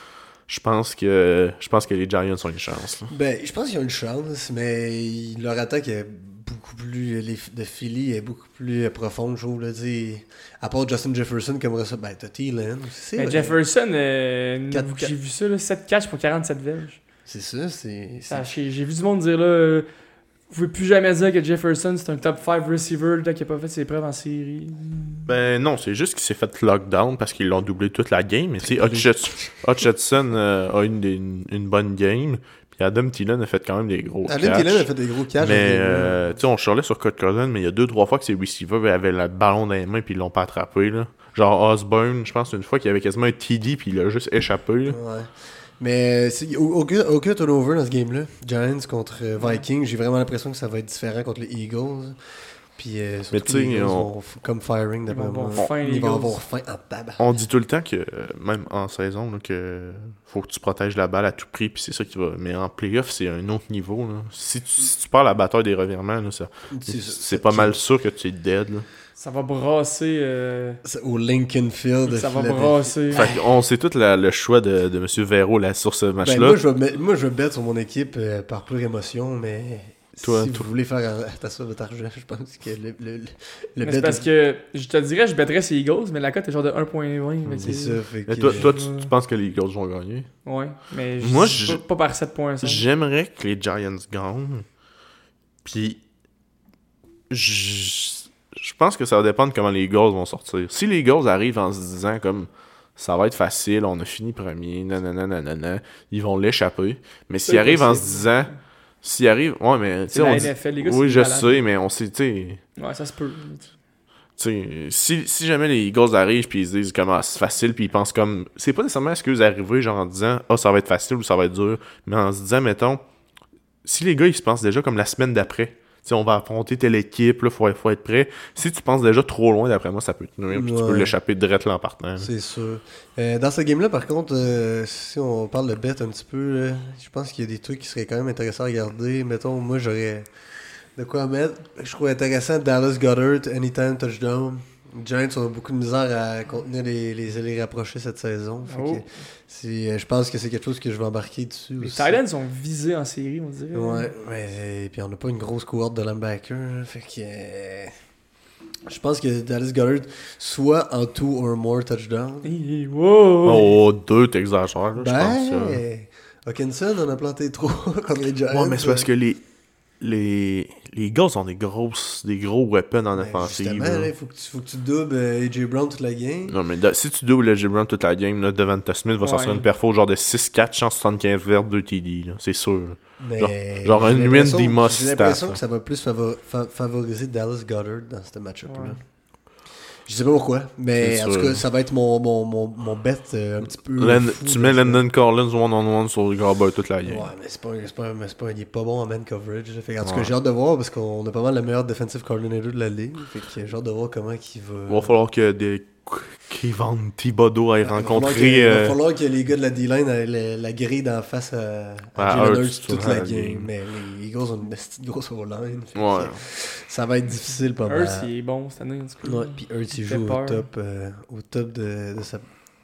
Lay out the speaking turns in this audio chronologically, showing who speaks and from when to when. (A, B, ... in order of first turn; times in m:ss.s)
0:00.5-0:03.1 A
0:03.1-0:13.6 B
0:13.2-0:17.0 C
0:14.7-0:15.1 B
0:17.2-0:18.4 B
0:18.3-0:19.9 C
0:20.5-0:25.3 C
0:25.3-0:34.9 A
0:28.6-0:29.5 B
0:34.2-0:36.3 B
0:35.4-0:45.0 A
0:44.9-0:52.2 B
0:52.8-0:57.3 B
0:53.3-0:54.1 A
0:55.1-0:56.3 C
0:57.2-1:08.8 A
1:06.7-1:07.8 B
1:09.2-1:10.8 C
1:10.8-1:13.4 B
1:12.0-1:13.3 C
1:13.1-1:16.6 A
1:16.2-1:24.3 B
1:20.2-1:20.6 A
1:23.8-1:29.1 C
1:27.6-1:28.7 B
1:28.3-1:30.3 A
1:30.4-1:32.8 C
1:31.2-1:31.8 A
1:32.6-1:34.6 A
1:35.6-1:36.0 A
1:37.3-1:48.5 A
1:47.4-1:48.5 C
1:49.0-1:52.6 A
1:50.1-1:51.6 C
1:52.8-1:53.7 C
1:54.4-2:03.0 A
2:03.8-2:12.3 A
2:10.5-2:11.1 B
2:12.2-2:20.3 B
2:21.0-2:32.2 B
2:28.6-2:29.0 C
2:31.8-2:34.1 C
2:33.7-2:37.9 B
2:38.9-2:42.5 B
2:42.4-2:43.8 C
2:43.4-2:45.8 A
2:45.0-2:49.1 B
2:48.5-2:49.4 A
2:50.0-2:54.1 A
2:53.1-2:56.6 B
2:56.5-3:05.6 A
2:59.2-2:59.7 C
3:03.2-3:09.0 B
3:08.6-3:09.0 C
3:10.0-3:15.0 B
3:11.0-3:11.6 A
3:14.0-3:17.3 A
3:17.0-3:25.1 B
3:20.0-3:20.3 A
3:24.9-3:29.0 A
3:27.8-3:38.3 B
3:32.2-3:33.7 A
3:35.9-3:36.4 A
3:37.8-3:40.7 C
3:39.2-3:42.4 B